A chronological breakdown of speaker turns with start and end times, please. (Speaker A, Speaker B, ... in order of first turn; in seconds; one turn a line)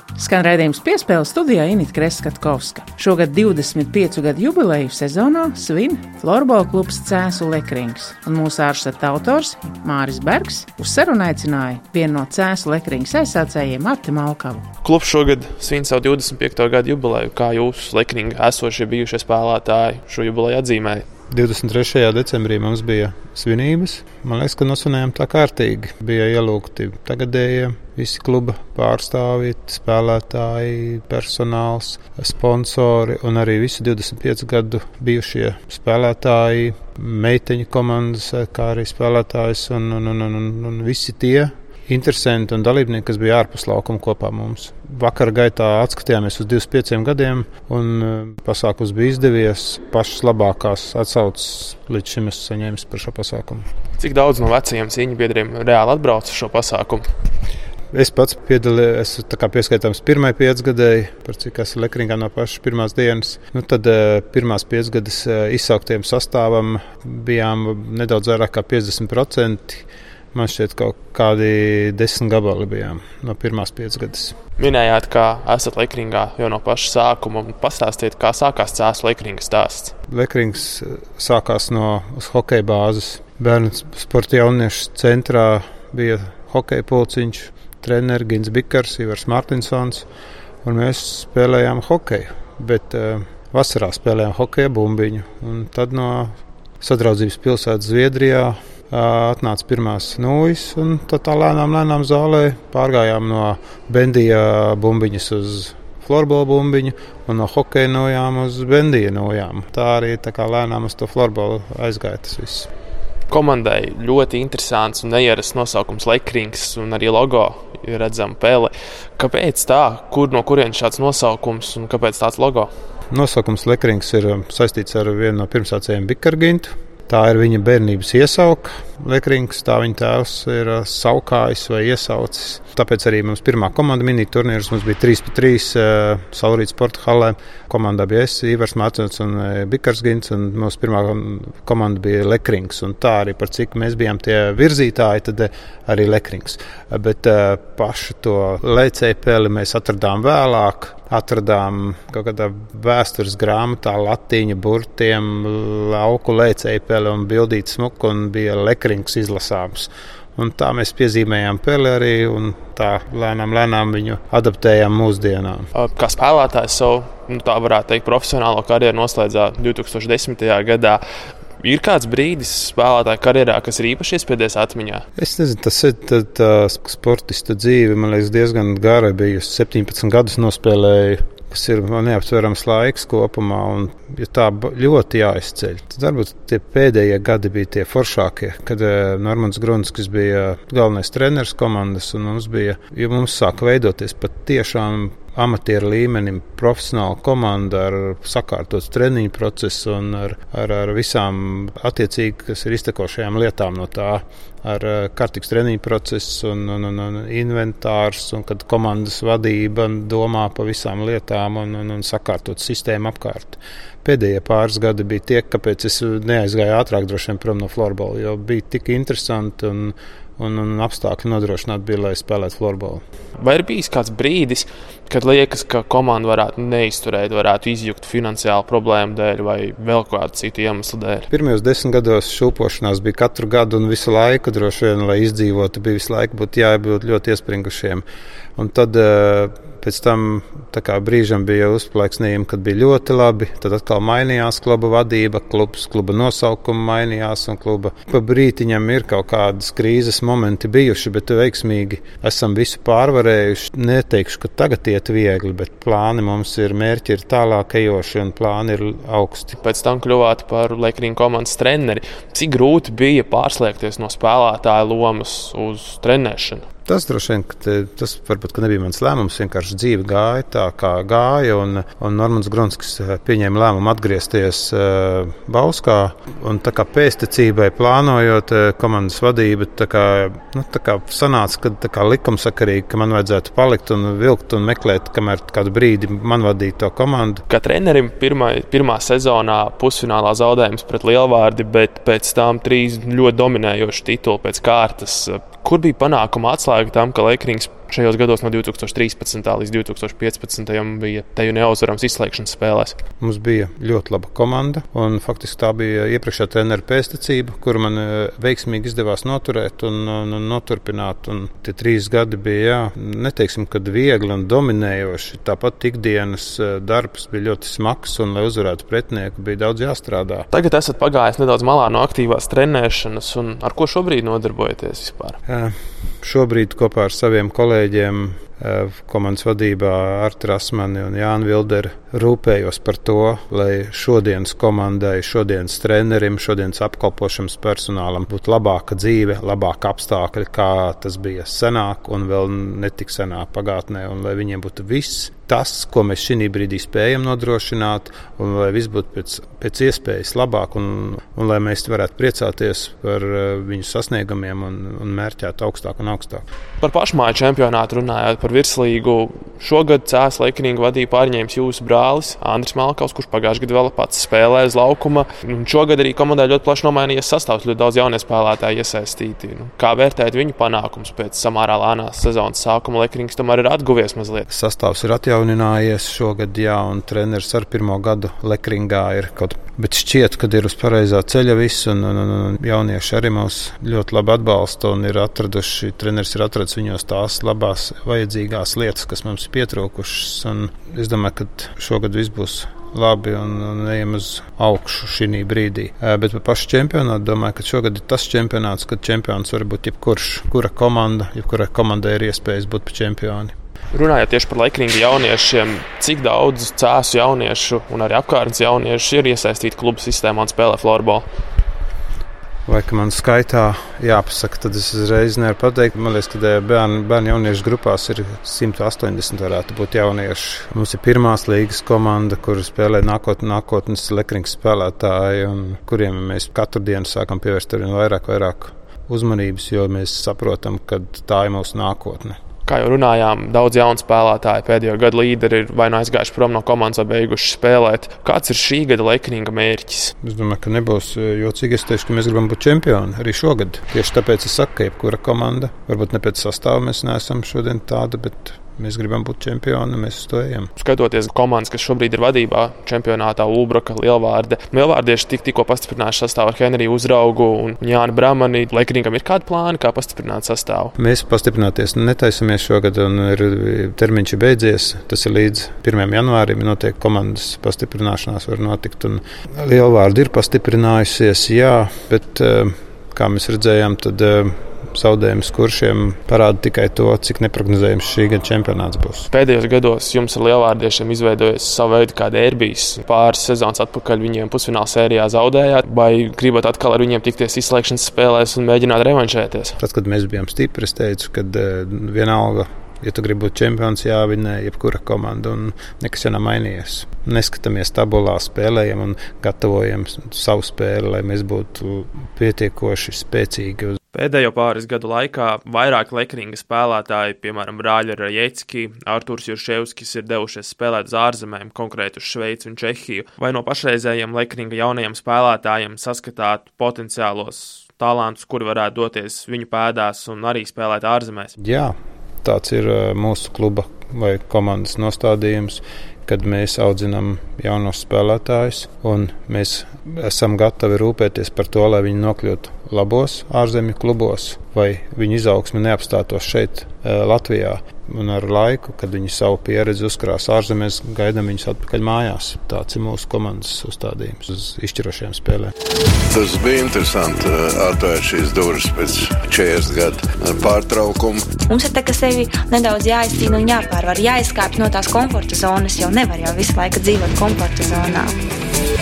Speaker A: 0.2-14.7
Speaker B: 14.8-21.0
Speaker C: 21.3-53.6
Speaker B: 54.0-57.0
Speaker C: 57.9-74.4
Speaker B: 74.6-80.0
Speaker C: 80.1-90.1
Speaker C: 90.6-112.7
Speaker B: 113.3-122.7
Speaker C: 123.1-165.7
Speaker B: 165.8-171.0
Speaker B: 171.6-175.0
Speaker C: 175.2-223.0
Speaker B: 223.4-231.3
Speaker C: 231.3-238.0
Speaker C: 238.6-259.6
Speaker B: 259.6-266.6
Speaker C: 266.9-287.4
Speaker B: 287.5-303.0
Speaker C: 303.2-320.5
Speaker B: 320.5-325.4
Speaker C: 325.5-356.4
Speaker B: 356.8-374.5
Speaker C: 374.5-403.5
Speaker B: 403.9-411.3
Speaker C: 412.7-432.4
Speaker B: 432.7-440.1
Speaker C: 440.2-450.7
Speaker B: 450.8-460.9
Speaker C: 461.0-479.3
Speaker B: 479.3-489.8
Speaker C: 489.8-504.0
Speaker B: 504.1-521.5
Speaker C: 521.6-545.7
Speaker D: 546.3-551.6
Speaker E: 551.6-558.3